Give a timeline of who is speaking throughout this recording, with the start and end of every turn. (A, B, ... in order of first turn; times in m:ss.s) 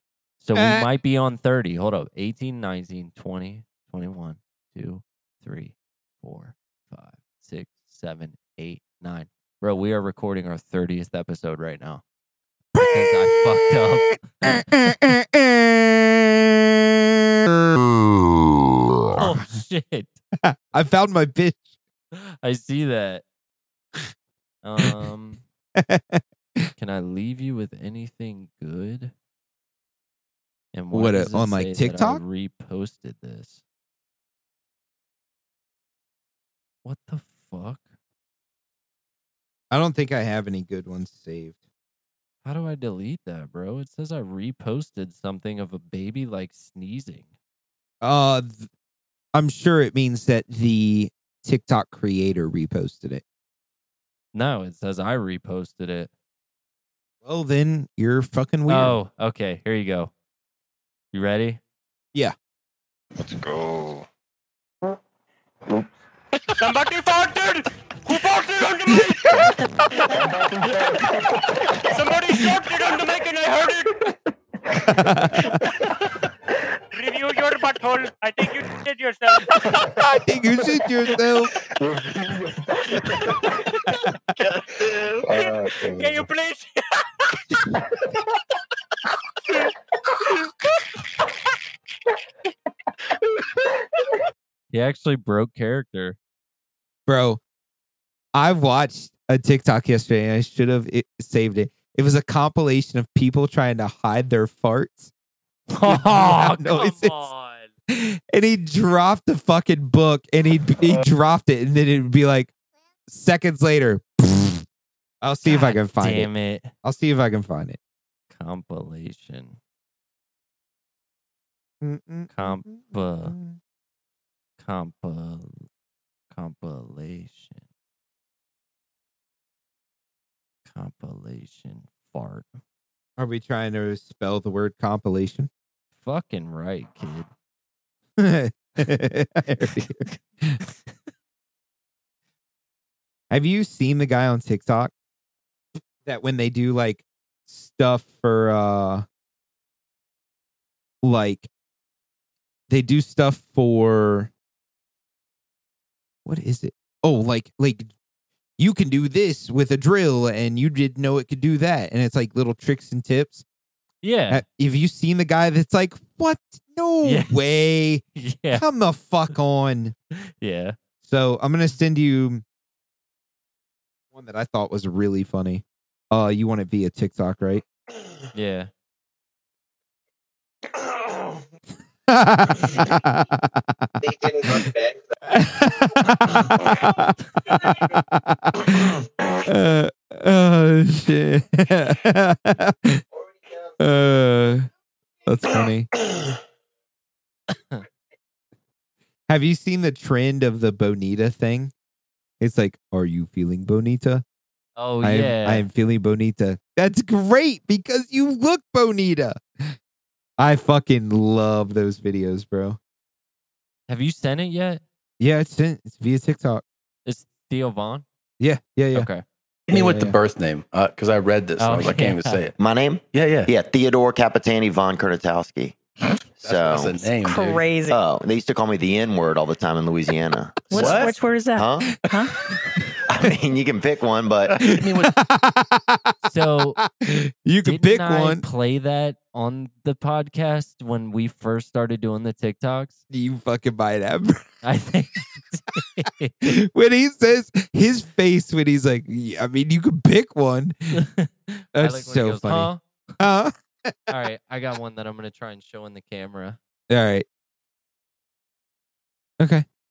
0:00.4-0:12.0 A
0:00.5-0:00.9 B
0:12.7-0:17.0 B
0:12.8-0:14.6 A
0:19.1-0:20.2 A
0:19.1-0:19.6 B
0:20.4-0:21.6 B
0:22.1-0:23.2 A
0:24.6-0:25.4 A
0:25.8-0:26.7 B
0:26.8-0:29.1 A
0:30.7-0:33.6 A
0:30.9-0:32.2 B
0:36.8-0:37.8 A
0:39.7-0:41.6 B
0:42.4-0:47.3 A
0:48.0-0:48.7 B
0:49.3-0:53.2 B
0:54.3-0:56.1 A
0:57.2-0:59.0 B
0:58.7-1:00.1 A
1:01.1-1:01.6 A
1:06.6-1:09.6 C
1:11.9-1:13.9 C
1:14.9-1:15.6 B
1:16.9-1:19.9 C
1:19.9-1:21.5 B
1:23.1-1:23.5 C
1:25.2-1:26.8 C
1:34.7-1:36.2 A
1:37.1-1:37.4 B
1:38.3-1:45.1 B
1:45.7-1:47.7 A
1:45.8-1:47.3 B
1:47.9-1:52.5 B
1:53.1-1:54.6 B
1:55.2-1:56.3 B
1:55.4-1:56.7 A
1:56.8-1:57.8 B
1:58.3-1:59.6 A
2:01.8-2:03.6 B
2:02.3-2:03.3 A
2:04.6-2:05.6 A
2:06.3-2:07.6 A
2:10.7-2:12.5 A
2:13.2-2:15.5 B
2:16.0-2:17.3 A
2:18.2-2:20.6 B
2:23.3-2:24.9 B
2:26.0-2:29.0 B
2:31.0-2:31.5 B
2:32.7-2:34.3 B
2:36.2-2:37.9 B
2:38.6-2:43.4 B
2:44.0-2:44.4 A
2:44.3-2:48.0 B
2:47.0-2:47.4 A
2:48.1-2:48.6 A
2:48.5-2:49.9 B
2:50.4-2:50.8 A
2:51.0-2:52.4 B
2:54.1-2:57.6 B
2:58.3-2:58.7 A
3:02.1-3:03.9 B
3:04.4-3:04.7 B
3:05.3-3:13.0 B
3:13.8-3:14.7 B
3:15.2-3:15.9 B
3:19.3-3:21.7 B
3:22.4-3:24.2 B
3:24.8-3:25.7 A
3:25.0-3:29.7 B
3:30.4-3:32.8 B
3:33.9-3:34.8 A
3:35.2-3:36.6 B
3:37.0-3:38.0 A
3:38.4-3:39.1 B
3:38.9-3:39.2 A
3:39.7-3:42.5 D
3:39.7-3:40.2 B
3:41.6-3:42.4 A
3:42.6-3:45.8 E
3:43.1-3:43.5 D
3:46.4-3:47.7 D
3:46.5-3:47.0 E
3:47.2-3:48.0 F
3:47.9-3:50.8 E
3:50.7-3:51.3 D
3:50.7-3:52.3 F
3:51.6-3:51.9 E
3:53.2-3:54.7 E
3:54.5-3:55.1 D
3:54.6-3:56.1 B
3:56.2-3:56.8 A
3:56.8-3:58.4 B
3:57.6-4:03.0 A
4:03.1-4:04.4 B
4:04.6-4:06.6 A
4:06.4-4:11.0 B
4:11.0-4:12.8 A
4:11.7-4:14.1 B
4:14.1-4:16.6 A
4:16.9-4:17.2 B
4:19.4-4:19.6 B